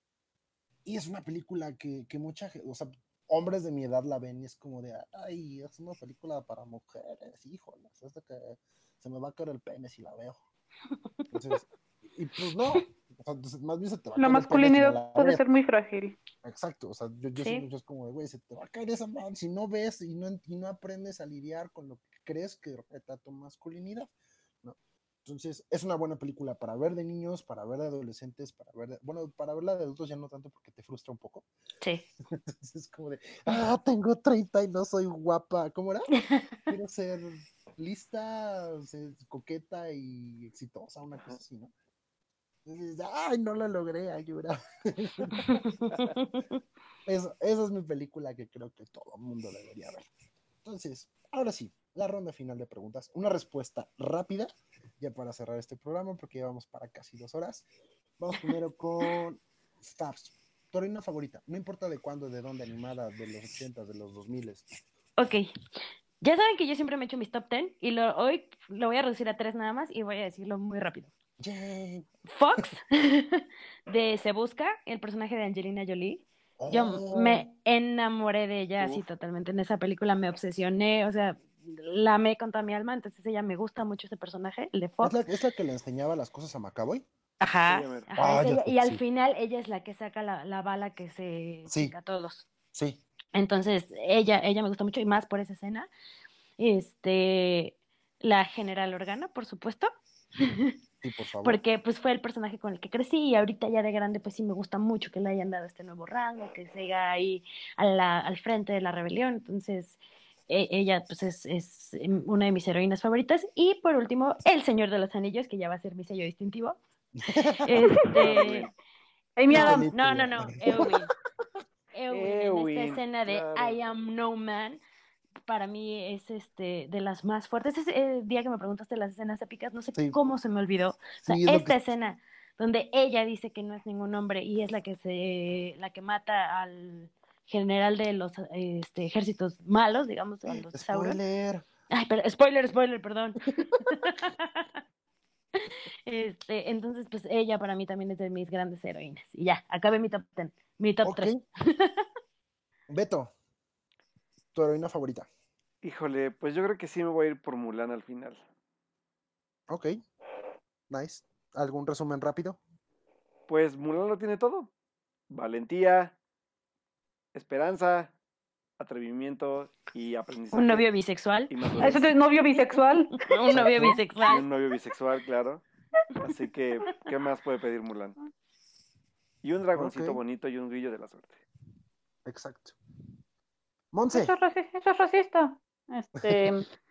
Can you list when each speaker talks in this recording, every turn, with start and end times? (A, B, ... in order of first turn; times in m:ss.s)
0:00.8-0:10.4 A
0:11.3-0:15.4 A
0:14.2-0:16.2 B
0:16.4-0:24.1 A
0:17.4-0:17.6 C
0:24.6-0:31.4 A
0:31.8-0:32.0 C
0:32.3-0:36.1 A
0:36.7-0:41.7 A
0:42.6-0:45.6 A
0:45.4-0:46.6 C
0:47.0-0:50.1 A
0:50.6-0:54.5 A
0:55.0-0:57.7 A
0:58.2-1:04.8 A
1:05.2-1:05.4 C
1:06.2-1:11.1 C
1:11.4-1:12.1 A
1:12.3-1:25.2 C
1:16.6-1:17.5 A
1:18.8-1:19.0 D
1:25.0-1:27.0 A
1:27.4-1:32.5 C
1:27.6-1:28.1 D
1:28.2-1:29.0 A
1:31.7-1:31.9 A
1:32.7-1:33.0 A
1:33.3-1:35.9 C
1:36.6-1:40.7 C
1:41.0-1:41.6 A
1:41.4-1:56.8 C
1:57.2-1:57.9 A
1:57.6-1:58.7 C
1:58.2-1:58.7 D
1:59.4-1:59.8 B
1:59.5-2:01.1 C
1:59.5-2:00.9 A
2:01.9-2:04.8 C
2:02.1-2:03.8 D
2:05.5-2:21.2 C
2:11.2-2:11.8 A
2:20.4-2:21.6 A
2:21.9-2:24.6 C
2:25.6-2:32.0 C
2:31.0-2:31.4 A
2:32.9-2:33.3 A
2:34.5-2:35.3 A
2:35.8-2:38.4 D
2:39.7-2:40.0 A
2:40.9-2:42.6 A
2:43.5-2:44.7 D
2:45.3-2:46.1 D
2:47.3-2:48.1 D
2:48.8-2:50.9 D
2:50.5-2:52.0 C
2:51.5-2:52.1 D
2:51.8-2:53.2 B
2:53.2-2:54.4 C
2:53.5-2:54.0 A
2:53.6-2:55.6 D
2:56.2-2:58.2 D
2:59.4-3:01.4 D
2:59.8-3:00.2 A
3:02.2-3:02.8 A
3:03.9-3:04.3 A
3:04.1-3:06.7 B